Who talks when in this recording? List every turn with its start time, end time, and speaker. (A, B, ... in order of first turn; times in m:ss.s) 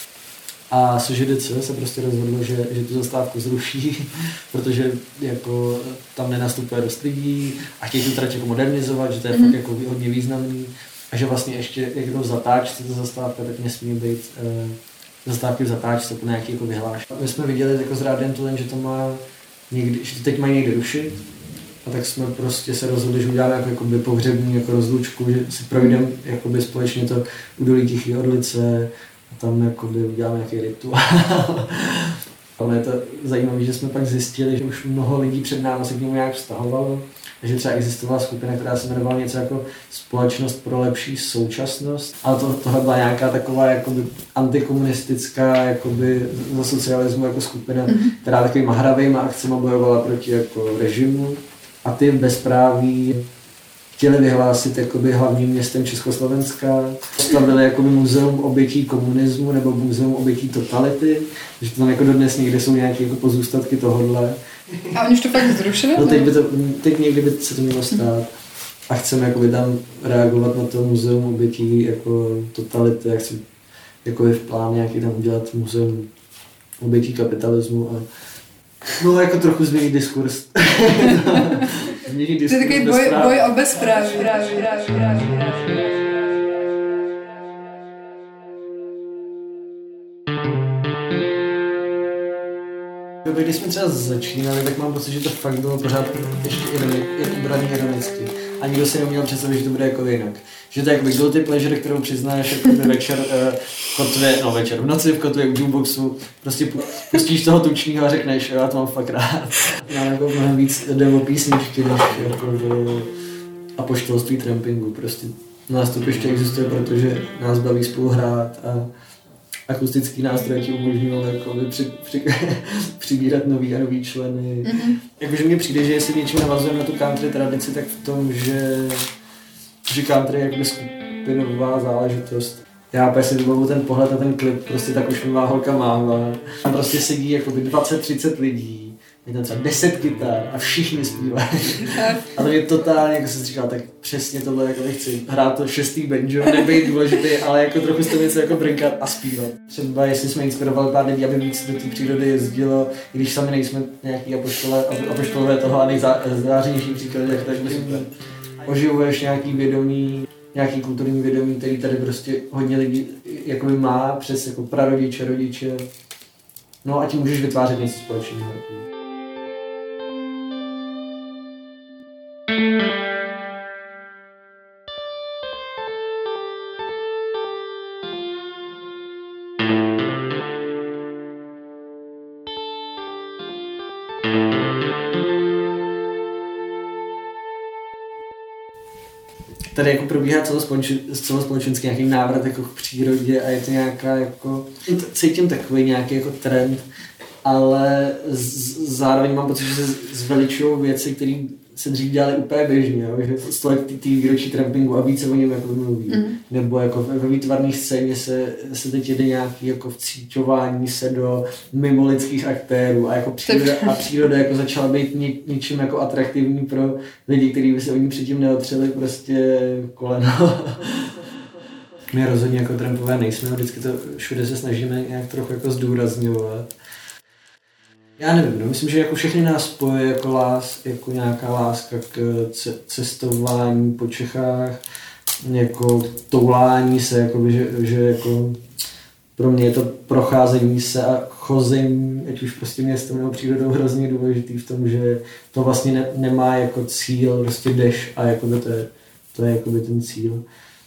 0:00.7-0:21.2 A
0:21.8-0:53.2 A
0:47.9-0:48.1 B
0:54.0-1:04.4 A
1:04.9-1:06.3 B
1:05.9-1:08.3 A
1:08.9-1:13.4 A
1:14.0-1:16.1 A
1:16.8-1:18.0 A
1:19.0-1:24.3 A
1:22.5-1:26.0 B
1:33.2-1:53.1 A
1:53.8-1:58.9 A
1:59.7-2:09.1 A
2:04.7-2:05.0 B
2:09.8-2:38.1 A
2:21.9-2:22.2 B
2:38.6-2:45.9 A
2:46.8-2:48.8 A
3:09.7-3:16.8 A
3:17.4-3:41.1 A
3:26.1-3:26.4 B
3:33.4-3:34.1 B
3:42.1-3:46.7 A
3:48.2-3:54.8 A
3:55.4-3:58.6 A
3:59.4-4:10.4 A